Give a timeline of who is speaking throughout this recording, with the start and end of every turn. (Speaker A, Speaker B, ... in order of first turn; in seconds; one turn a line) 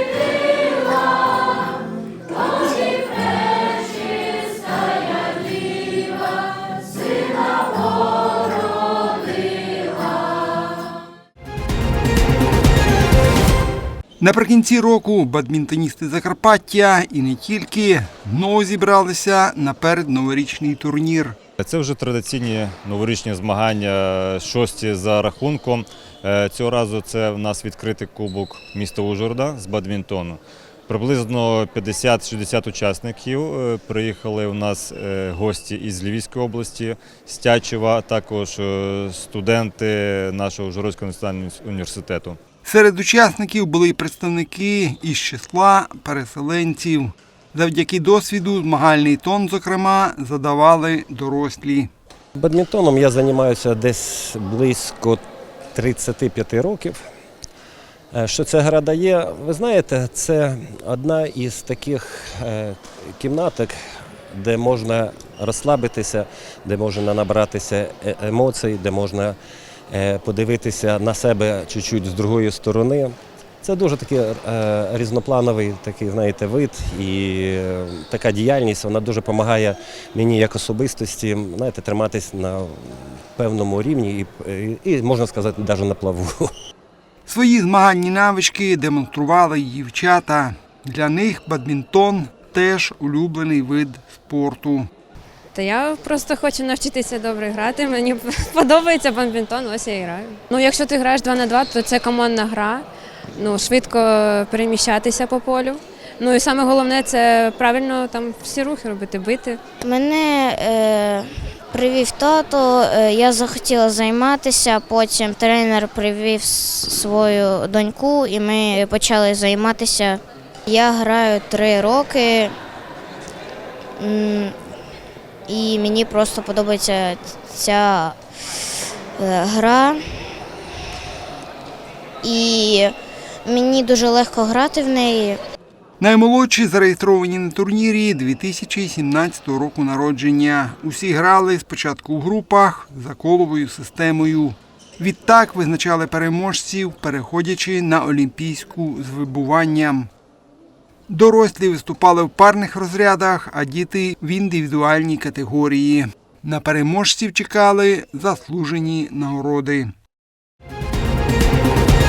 Speaker A: 14.2-21.4
Speaker B: 21.6-42.4
Speaker A: 42.6-51.9
Speaker C: 52.4-55.2
Speaker C: 55.8-57.0
Speaker C: 58.1-63.8
Speaker C: 64.3-69.4
Speaker C: 69.9-86.5
Speaker A: 87.3-94.9
Speaker D: 95.5-109.6
Speaker E: 109.8-122.5
Speaker E: 124.0-124.6
Speaker E: 125.5-128.2
Speaker E: 129.2-130.0
Speaker E: 132.2-135.4
Speaker A: 136.0-150.1
Speaker A: 151.1-159.9